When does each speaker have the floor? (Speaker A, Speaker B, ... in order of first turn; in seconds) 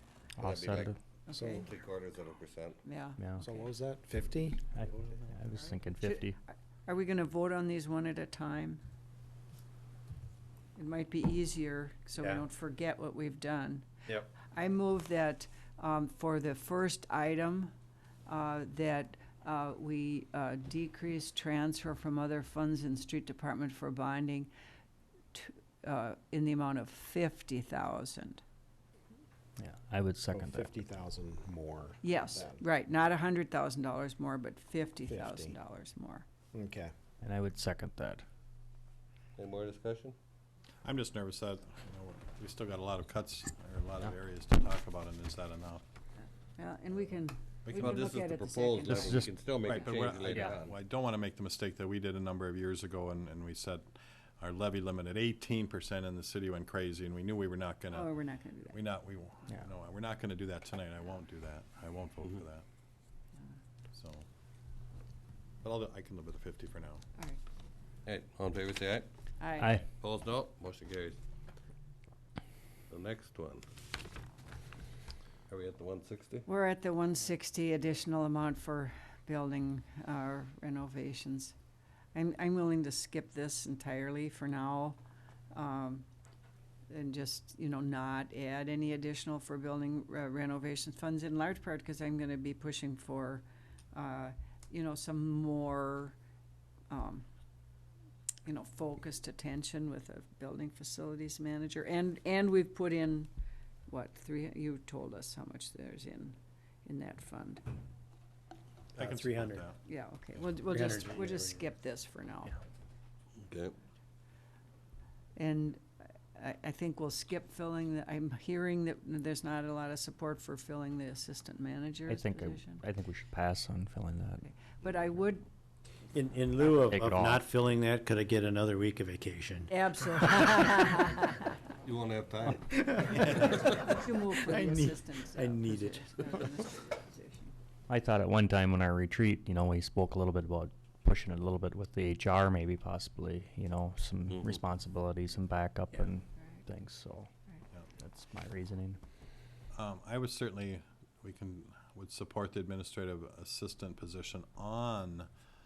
Speaker A: 0.4-1.0, 3.2-3.5, 4.7-6.4, 29.6-30.8, 37.2-38.2, 48.9-49.3, 69.6-69.8, 122.1-124.4, 126.7-127.4, 137.9-147.3, 148.0-149.0
Speaker B: 0.4-0.9, 1.6-2.8, 39.4-40.2, 47.8-50.8, 68.1-69.1, 70.0-71.2, 72.9-73.6, 75.5-76.5, 113.4-113.8, 131.8-132.7, 144.3-144.6
Speaker C: 1.3-1.7, 2.8-3.7, 5.5-8.8, 10.8-17.7, 18.3-24.5, 25.3-28.4, 32.0-36.2, 46.6-49.9, 57.9-58.8, 69.4-69.8, 76.5-81.5, 82.1-85.0, 85.5-86.1, 86.9-96.2, 96.9-97.3, 98.5-103.3, 103.9-107.6, 109.8-112.6, 115.4-115.8, 116.3-122.8, 124.4-125.5, 129.7-131.5, 133.2-137.5
Speaker D: 1.3-1.7, 3.4-5.2, 30.3-32.6, 35.1-35.6, 36.5-36.9
Speaker E: 12.2-12.4, 109.0-109.7, 110.7-111.6, 126.1-131.1, 132.7-136.5
Speaker F: 40.8-45.8, 47.7-48.2, 49.6-62.6, 63.9-64.3, 65.6-67.0, 109.0-109.8, 149.7-155.3